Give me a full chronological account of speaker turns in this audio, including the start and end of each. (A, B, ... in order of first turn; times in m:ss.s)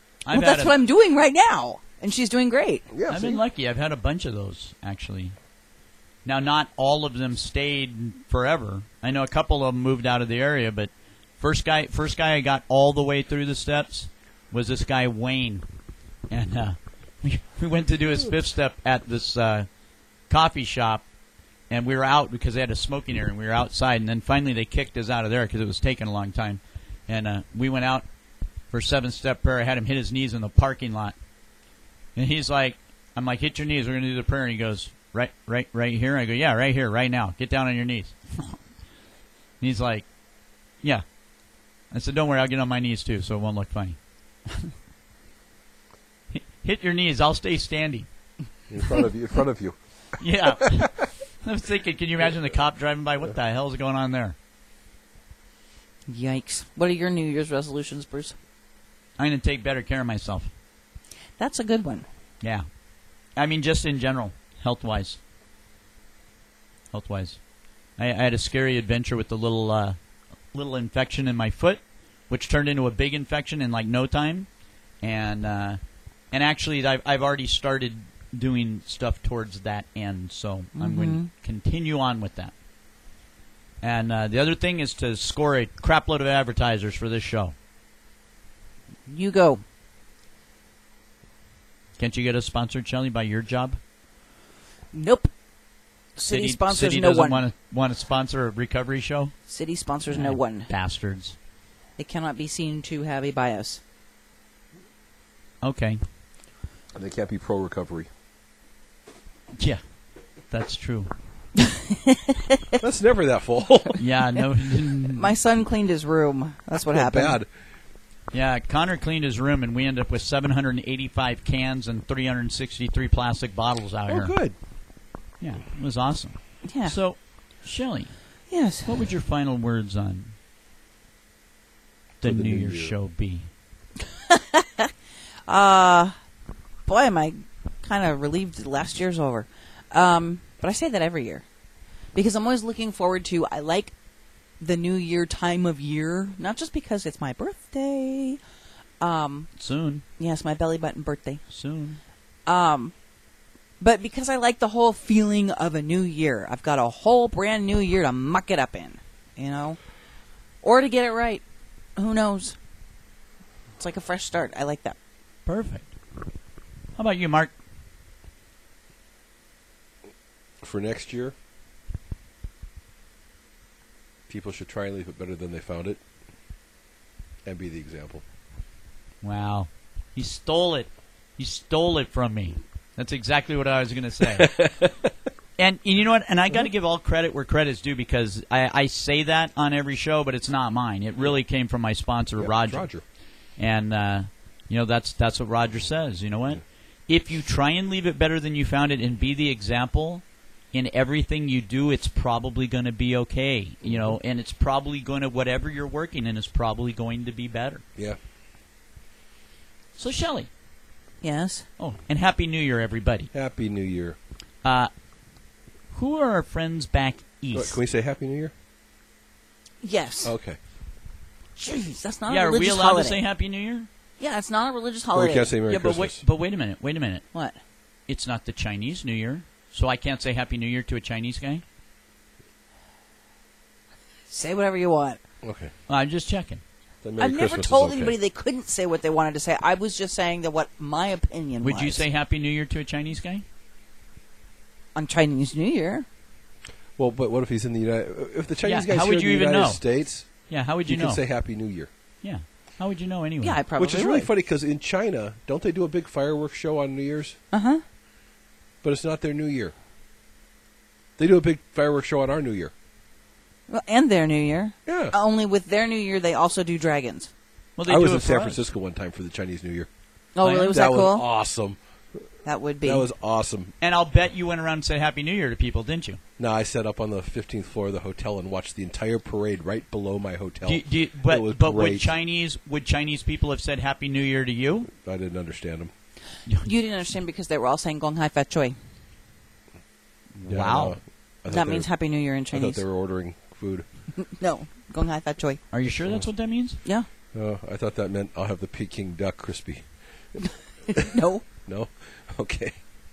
0:00.3-0:00.8 A
0:00.3-0:02.9 B
0:02.9-0:03.4 C
0:03.1-0:05.3 A
0:06.2-0:15.6 A
0:16.3-0:19.7 A
0:20.3-0:21.0 A
0:21.7-0:28.0 A
0:28.7-0:31.2 A
0:32.2-0:38.6 A
0:39.6-0:40.0 A
0:41.9-0:44.0 A
0:44.5-0:44.7 A
0:46.3-0:48.1 A
0:48.7-0:49.8 C
0:50.2-0:54.3 A
0:50.4-0:50.9 C
0:56.1-0:58.3 B
0:59.2-1:00.5 A
1:01.4-1:02.0 B
1:03.4-1:05.2 A
1:06.9-1:07.4 A
1:08.0-1:10.0 A
1:10.5-1:14.5 A
1:15.0-1:15.8 A
1:16.3-1:22.5 A
1:20.8-1:21.3 B
1:23.8-1:27.5 A
1:29.1-1:29.6 B
1:32.0-1:33.8 A
1:34.9-1:35.3 B
1:36.2-1:39.3 A
1:36.2-1:37.4 B
1:39.5-1:40.7 B
1:40.1-1:41.4 A
1:42.0-1:43.8 B
1:45.6-1:46.0 A
1:46.9-1:48.1 C
1:50.5-1:51.1 A
1:51.6-1:52.6 B
1:52.8-1:54.0 C
1:54.0-1:55.3 A
1:55.0-1:57.4 B
1:56.7-1:57.5 C
1:58.3-2:04.4 A
2:04.1-2:04.6 C
2:05.4-2:08.1 A
2:06.6-2:07.0 B
2:08.5-2:09.0 B
2:08.8-2:10.3 A
2:12.2-2:13.5 A
2:12.2-2:12.9 C
2:14.2-2:14.9 B
2:15.5-2:16.1 B
2:16.9-2:21.4 B
2:22.1-2:23.9 B
2:24.6-2:28.4 B
2:29.0-2:29.5 B
2:29.6-2:30.0 A
2:30.2-2:31.4 B
2:31.5-2:32.0 A
2:32.4-2:32.9 B
2:33.8-2:39.8 B
2:40.6-2:41.4 B
2:42.0-2:42.6 B
2:43.8-2:45.0 B
2:45.4-2:45.9 A
2:47.0-2:47.5 A
2:50.6-2:51.3 C
2:54.3-2:56.0 C
2:57.4-2:58.2 C
2:59.2-3:04.7 A
3:04.4-3:04.9 C
3:05.6-3:12.9 A
3:12.4-3:13.0 C
3:13.6-3:27.8 A
3:23.8-3:24.2 C
3:30.0-3:30.5 A
3:31.2-3:31.7 B
3:31.8-3:33.3 A
3:33.3-3:34.2 C
3:34.6-3:34.9 A
3:35.9-3:37.8 A
3:37.5-3:38.5 C
3:39.8-3:40.3 B
3:40.2-3:40.6 C
3:41.6-3:43.2 B
3:42.3-3:43.9 A
3:44.2-3:45.5 B
3:45.1-3:46.2 C
3:45.7-3:47.3 A
3:48.1-3:51.6 A
3:54.3-3:55.2 B
3:55.4-3:55.7 C
3:55.9-3:56.6 A
3:57.0-3:58.1 C
3:57.2-4:02.0 B
4:01.6-4:03.4 A
4:05.0-4:06.0 B
4:07.0-4:11.9 C
4:08.6-4:09.9 A
4:10.5-4:11.2 A
4:12.2-4:13.6 A
4:13.4-4:14.3 B
4:13.8-4:17.4 C
4:17.5-4:17.8 B
4:18.8-4:19.7 C
4:21.2-4:22.7 C
4:23.7-4:27.3 B
4:24.9-4:25.1 C
4:27.8-4:28.6 A
4:27.9-4:29.9 C
4:30.4-4:31.2 B
4:30.4-4:30.7 A
4:30.7-4:31.8 C
4:32.4-4:33.0 B
4:32.8-4:33.7 C
4:33.8-4:36.2 A
4:36.4-4:42.1 C
4:40.6-4:44.9 A
4:44.9-4:45.9 C
4:46.6-4:48.8 B
4:50.4-4:51.0 A
4:50.5-4:51.9 C
4:51.5-4:52.8 B
4:52.5-4:53.9 C
4:54.2-4:55.6 B
4:55.7-4:56.8 A
4:57.3-4:59.9 C
5:00.9-5:01.4 B
5:01.7-5:02.8 C